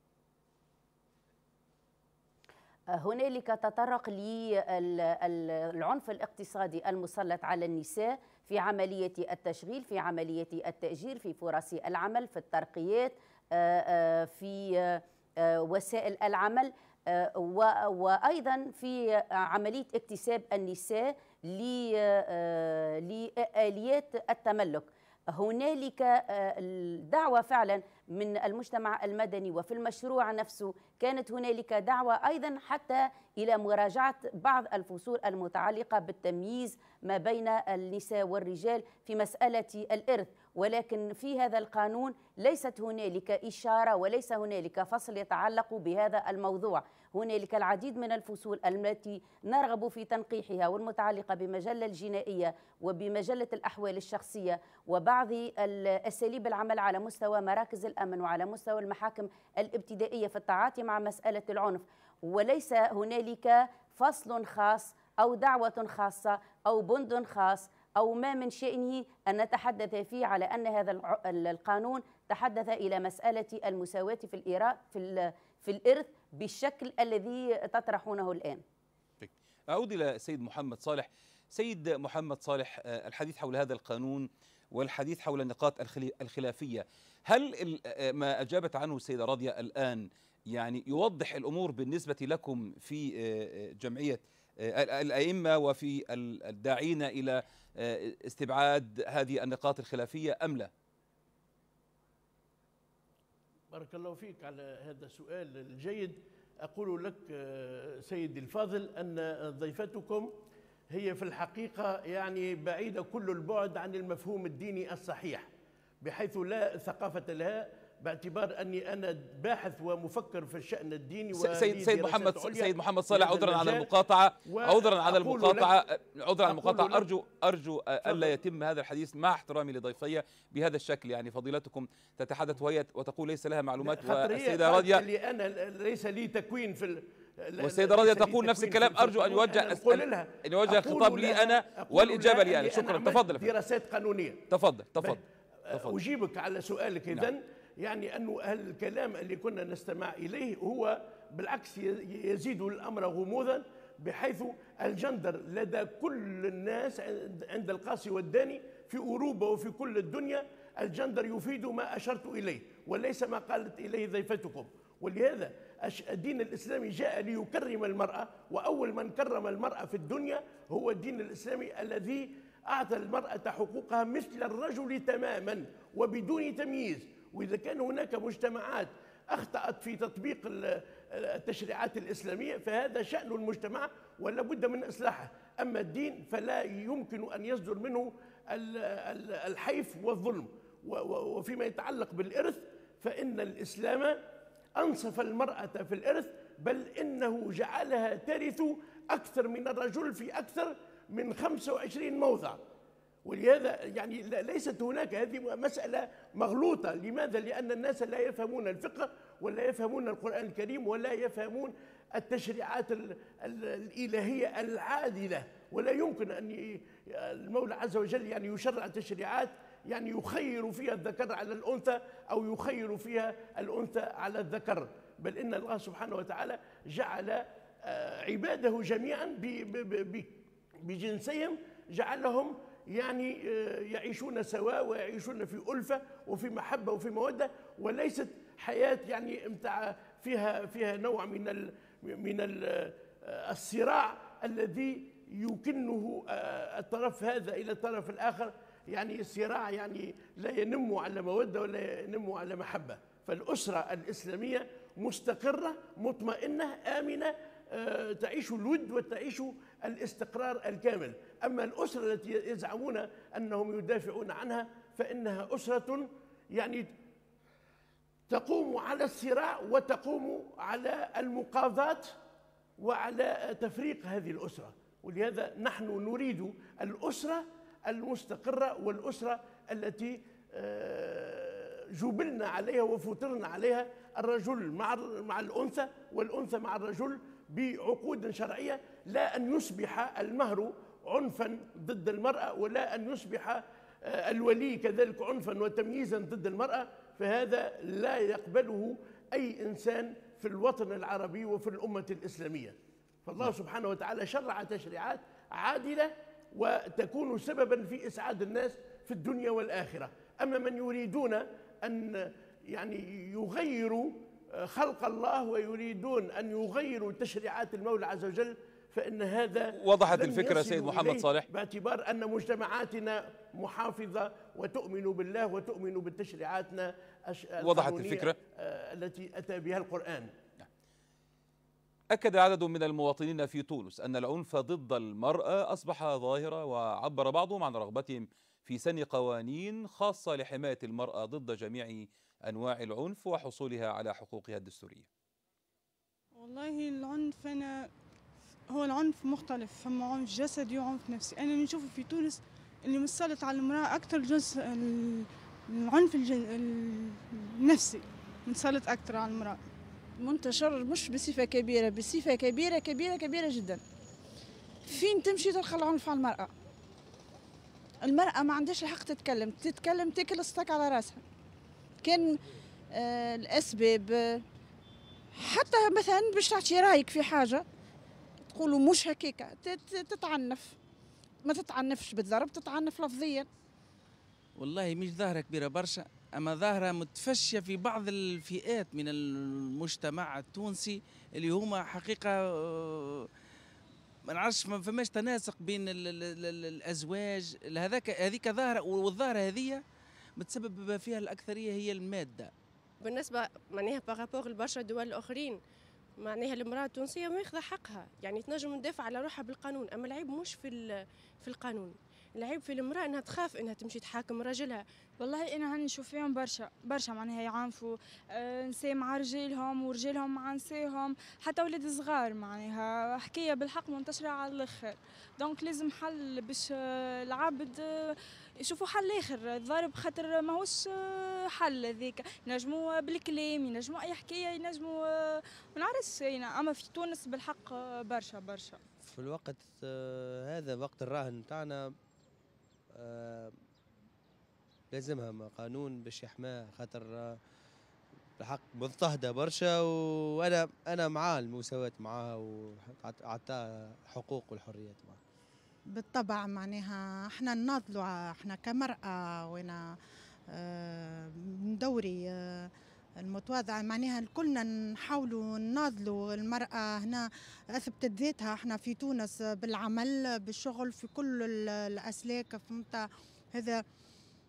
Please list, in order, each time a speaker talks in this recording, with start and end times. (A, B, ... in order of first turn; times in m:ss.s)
0:02.9-1:18.6 A
1:19.2-1:40.7 B
1:43.7-1:50.3 C
1:50.9-1:55.5 C
1:56.0-2:03.9 C
2:01.3-2:15.0 B
2:04.5-2:05.7 C
2:06.5-2:07.0 C
2:08.0-2:08.3 C
2:13.8-2:24.4 C
2:17.6-2:23.5 B
2:24.5-2:25.2 B
2:25.0-3:14.2 C
2:25.7-2:26.0 B
3:14.8-3:22.6 C
3:23.2-4:26.9 C
4:28.3-4:32.1 C
4:32.8-5:30.3 C
5:19.8-5:21.4 B
5:27.6-5:28.4 B
5:32.1-5:45.1 B
5:46.4-5:47.9 D
5:48.7-5:59.6 D
6:00.2-6:03.8 E
6:04.8-6:06.5 E
6:08.0-6:11.2 E
6:12.0-6:12.4 E
6:12.9-6:14.4 E
6:15.3-6:17.6 E
6:18.5-6:20.8 E
6:21.4-6:23.5 E
6:24.6-6:33.3 F
6:34.3-6:39.8 F
6:40.4-6:42.5 F
6:43.0-6:45.6 G
6:46.2-6:54.8 G
6:55.2-7:18.8 H
7:19.0-7:21.9 I
7:22.9-7:23.6 I
7:24.9-7:27.4 I
7:28.4-7:35.2 I
7:36.0-7:39.9 J
7:40.5-7:53.8 J